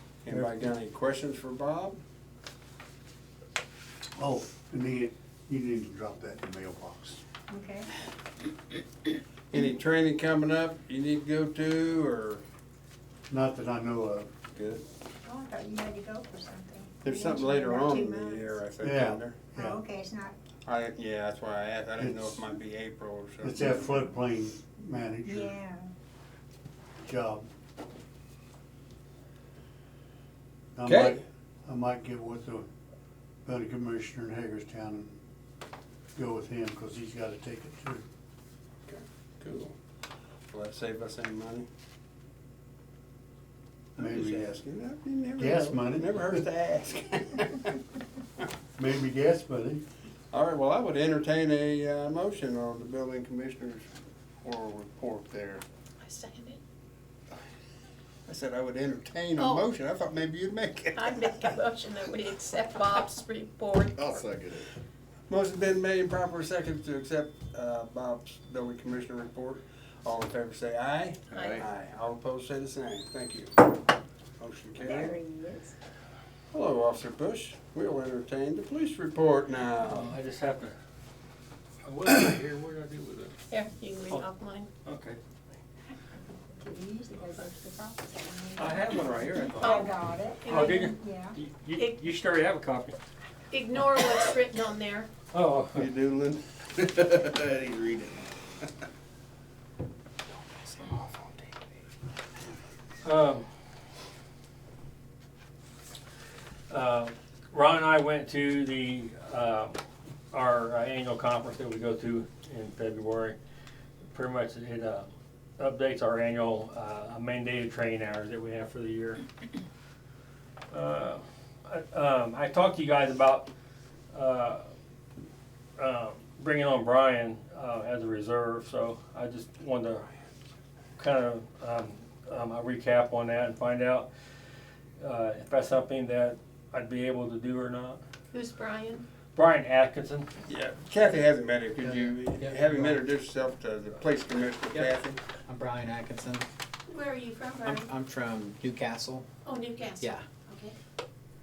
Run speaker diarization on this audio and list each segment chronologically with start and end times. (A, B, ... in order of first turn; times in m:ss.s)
0:00.2-0:02.0 A
0:00.3-0:00.7 B
0:04.2-0:07.2 B
0:07.5-0:07.9 C
0:09.5-0:12.4 A
0:13.3-0:14.3 B
0:14.5-0:14.8 A
0:15.2-0:18.6 C
0:17.0-0:19.4 A
0:18.8-0:19.8 B
0:19.5-0:20.4 C
0:20.6-0:24.1 A
0:22.0-0:22.5 B
0:23.4-0:25.6 B
0:25.2-0:25.9 C
0:27.0-0:27.5 B
0:30.8-0:32.7 B
0:30.9-0:31.2 A
0:33.4-0:35.2 B
0:36.2-0:38.0 B
0:38.9-0:39.8 A
0:40.5-0:41.7 A
0:44.0-0:47.8 A
0:44.0-0:44.6 B
0:45.4-0:46.4 B
0:48.8-0:49.8 B
0:50.3-0:53.9 A
0:54.4-0:55.6 A
0:56.0-0:56.6 D
0:58.3-1:01.6 A
0:59.4-0:59.6 D
1:01.0-1:04.2 D
1:04.0-1:04.7 E
1:05.3-1:13.5 A
1:11.3-1:11.7 E
1:11.3-1:11.6 D
1:14.4-1:15.2 A
1:14.8-1:15.7 C
1:16.5-1:20.1 A
1:19.8-1:20.8 F
1:21.8-1:23.4 F
1:23.5-1:24.7 D
1:24.8-1:25.2 F
1:26.6-1:31.4 C
1:28.6-1:29.9 F
1:29.6-1:30.9 D
1:30.5-1:33.0 F
1:33.5-1:35.1 D
1:35.3-1:35.9 F
1:35.8-1:36.4 A
1:36.8-1:38.6 E
1:40.5-1:41.6 A
1:43.0-1:43.4 F
1:46.7-1:49.8 F
1:50.3-1:53.4 F
1:54.1-1:59.2 F
2:00.7-2:03.5 F
2:04.1-2:04.6 F
2:05.8-2:10.0 F
2:11.0-2:14.1 F
2:15.0-2:18.0 F
2:18.3-2:19.0 D
2:19.4-2:20.3 F
2:20.5-2:25.2 A
2:21.8-2:23.0 G
2:24.7-2:26.5 G
2:26.9-2:27.9 D
2:27.6-2:29.3 G
2:29.5-2:30.8 D